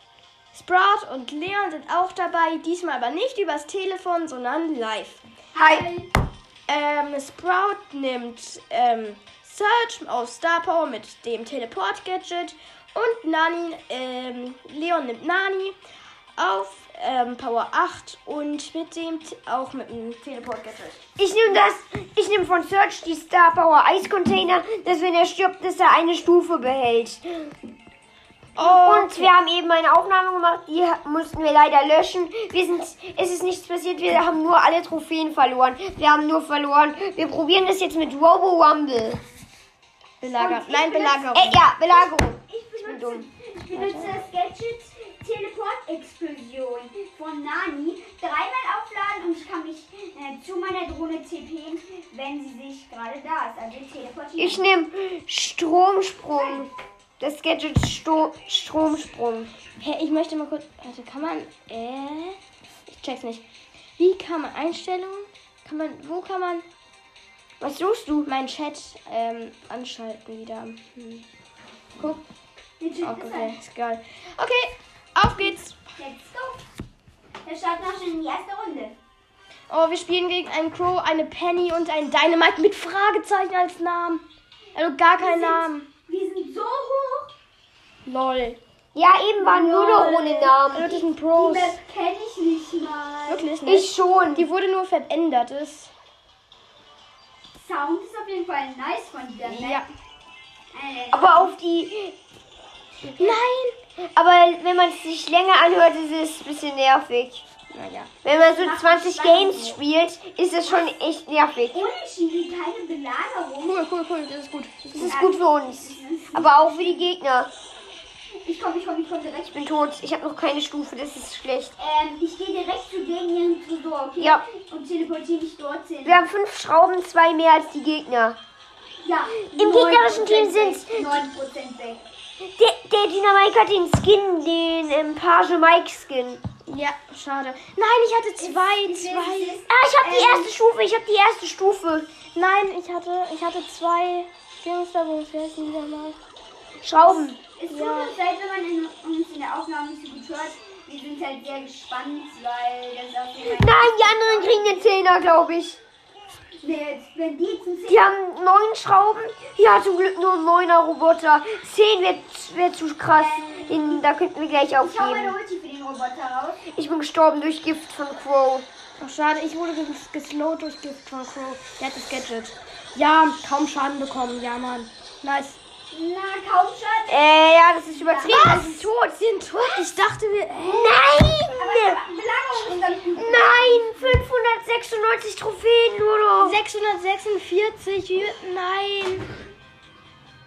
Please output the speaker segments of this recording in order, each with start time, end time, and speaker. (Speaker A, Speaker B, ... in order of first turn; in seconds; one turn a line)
Speaker A: 0.5-5.2
Speaker B: 5.5-6.1
Speaker A: 6.7-15.7
Speaker A: 16.4-21.0
Speaker C: 21.2-27.5
Speaker A: 28.6-29.3
Speaker C: 28.6-39.2
Speaker A: 40.2-41.6
Speaker B: 40.2-41.3
Speaker C: 41.3-43.2
Speaker B: 41.8-54.6
Speaker A: 43.7-44.2
Speaker C: 54.4-59.5
Speaker A: 59.8-63.4
Speaker A: 64.0-66.6
Speaker C: 67.6-68.3
Speaker A: 68.2-71.2
Speaker A: 72.0-72.2
Speaker B: 72.8-73.5
Speaker A: 73.0-75.8
Speaker B: 76.0-76.6
Speaker B: 77.4-79.0
Speaker A: 79.7-85.8
Speaker B: 85.2-87.3
Speaker A: 88.0-88.6
Speaker C: 88.9-91.0
Speaker B: 89.4-93.5
Speaker A: 90.7-91.8
Speaker A: 93.3-95.9
Speaker C: 93.7-94.5
Speaker B: 97.5-99.8
Speaker A: 99.4-99.8
Speaker B: 100.7-101.5
Speaker C: 101.1-102.1
Speaker A: 103.2-103.7
Speaker C: 104.1-107.4
Speaker A: 107.7-108.1
Speaker C: 108.2-111.8
Speaker B: 108.6-109.8
Speaker B: 111.7-113.8
Speaker A: 113.6-115.2
Speaker C: 114.9-117.5
Speaker B: 115.0-117.1
Speaker B: 118.4-119.5
Speaker C: 119.5-121.7
Speaker B: 121.8-126.2
Speaker C: 124.2-124.4
Speaker C: 126.0-128.4
Speaker B: 129.0-132.0
Speaker C: 129.6-131.1
Speaker C: 132.6-136.4
Speaker A: 136.7-139.6
Speaker B: 138.4-140.5
Speaker C: 139.7-142.1
Speaker A: 142.3-146.2
Speaker C: 146.8-147.4
Speaker B: 147.0-154.9
Speaker A: 147.7-148.1
Speaker C: 153.4-155.8
Speaker B: 156.6-158.1
Speaker C: 157.9-165.3
Speaker B: 163.2-164.0
Speaker B: 164.8-166.6
Speaker C: 166.7-168.7
Speaker A: 169.0-175.6
Speaker B: 175.9-177.3
Speaker C: 177.1-179.2
Speaker B: 177.9-178.4
Speaker A: 178.2-181.0
Speaker C: 180.6-182.0
Speaker B: 181.5-184.2
Speaker C: 183.2-186.6
Speaker A: 186.4-189.3